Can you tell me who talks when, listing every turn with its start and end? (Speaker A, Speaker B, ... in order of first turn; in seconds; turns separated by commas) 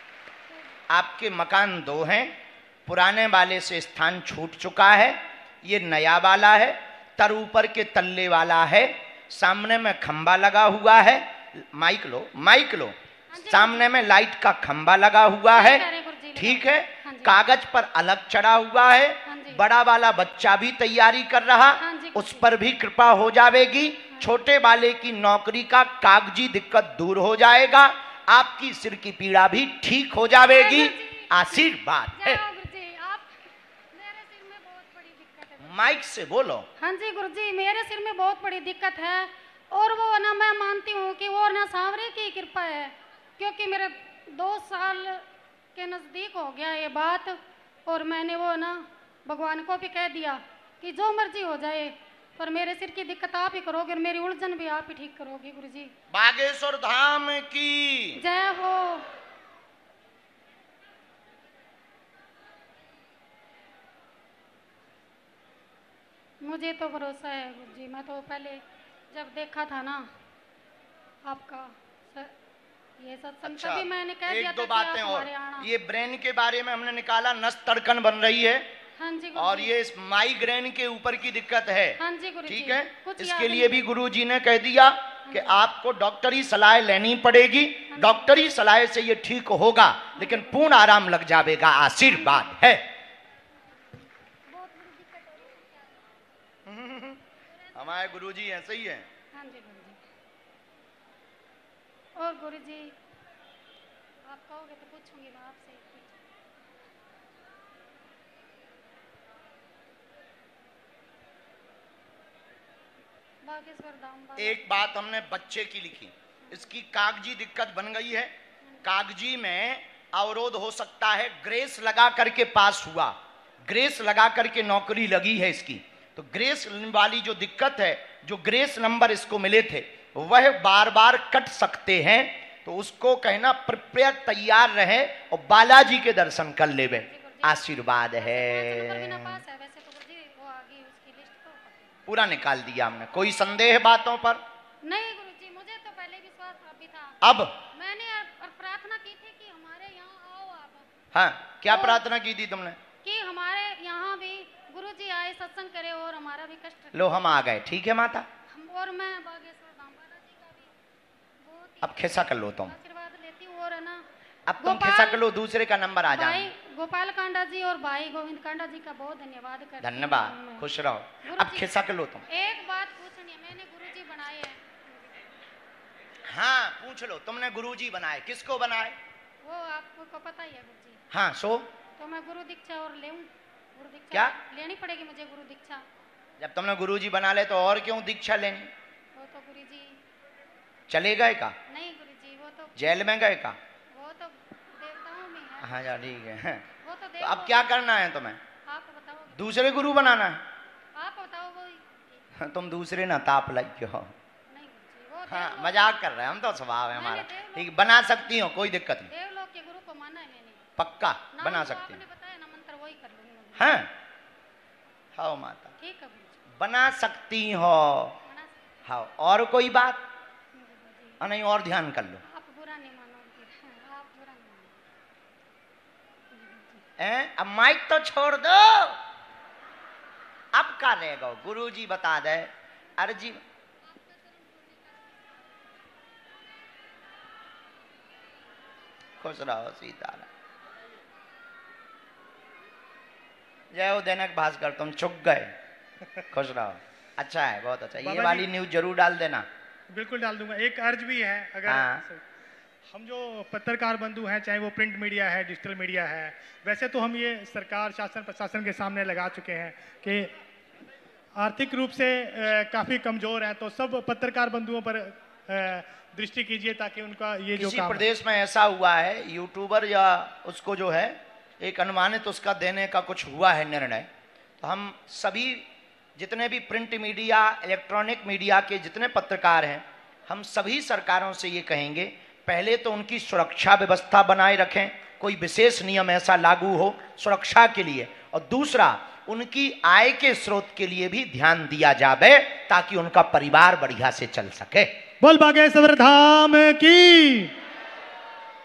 Speaker A: 0.9-32.4, Speaker B: 13.3-13.9, Speaker B: 15.5-17.4, Speaker B: 19.3-19.6, Speaker B: 21.8-22.5, Speaker B: 24.1-24.4, Speaker B: 30.4-35.8, Speaker A: 35.6-36.7, Speaker B: 36.8-55.9, Speaker A: 56.1-58.2, Speaker B: 58.2-59.1, Speaker B: 66.4-70.1, Speaker B: 71.2-72.3, Speaker B: 73.0-75.7, Speaker A: 73.5-78.7, Speaker B: 79.0-79.8, Speaker A: 79.3-92.9, Speaker B: 82.0-83.9, Speaker B: 85.3-85.6, Speaker B: 87.9-88.3, Speaker B: 90.2-90.6, Speaker B: 92.1-92.5, Speaker B: 94.5-96.1, Speaker A: 96.7-97.2, Speaker A: 97.7-99.1, Speaker B: 99.3-100.0, Speaker B: 102.1-103.0, Speaker B: 104.2-106.2, Speaker B: 113.4-115.3, Speaker A: 114.4-118.3, Speaker B: 116.4-116.7, Speaker A: 118.8-139.4, Speaker B: 137.0-142.1, Speaker A: 142.1-144.4, Speaker B: 144.8-150.9, Speaker A: 147.2-147.6, Speaker A: 151.1-152.8, Speaker B: 151.7-152.0, Speaker B: 153.0-157.3, Speaker A: 156.9-158.3, Speaker B: 158.5-160.7, Speaker B: 161.4-164.1, Speaker A: 161.8-162.7, Speaker A: 164.5-166.5, Speaker B: 164.6-165.2, Speaker B: 166.1-170.7, Speaker A: 169.8-172.2, Speaker B: 171.2-171.7, Speaker B: 172.3-175.1, Speaker A: 176.3-179.0, Speaker B: 179.4-181.0, Speaker A: 181.1-181.7, Speaker B: 182.0-185.9, Speaker A: 186.4-188.7, Speaker B: 189.1-190.0, Speaker A: 190.9-191.6, Speaker B: 191.7-193.0, Speaker A: 192.8-193.6, Speaker B: 193.9-196.0, Speaker A: 195.6-196.7, Speaker B: 196.8-197.7, Speaker A: 197.2-198.4, Speaker B: 198.7-199.7, Speaker A: 199.3-200.4, Speaker B: 200.9-202.2, Speaker A: 202.4-204.1, Speaker B: 204.5-206.1, Speaker A: 205.3-209.1, Speaker B: 206.9-208.1, Speaker B: 209.1-210.7, Speaker A: 210.8-212.0, Speaker B: 211.4-213.8, Speaker A: 213.6-213.9, Speaker A: 215.2-215.7, Speaker B: 215.8-216.4, Speaker A: 216.6-218.2, Speaker B: 218.3-218.6, Speaker A: 218.9-220.1, Speaker B: 220.5-221.2, Speaker A: 221.2-222.2, Speaker B: 222.2-224.8, Speaker B: 226.3-226.8, Speaker A: 227.0-229.0, Speaker A: 230.5-233.4, Speaker B: 233.9-235.1, Speaker A: 239.2-240.3, Speaker A: 243.7-245.5, Speaker A: 246.3-249.5, Speaker C: 248.0-248.5, Speaker C: 249.9-252.2, Speaker A: 251.7-252.0, Speaker C: 252.9-260.3, Speaker C: 261.4-268.1, Speaker A: 267.6-274.1, Speaker A: 274.6-294.9, Speaker C: 295.2-297.5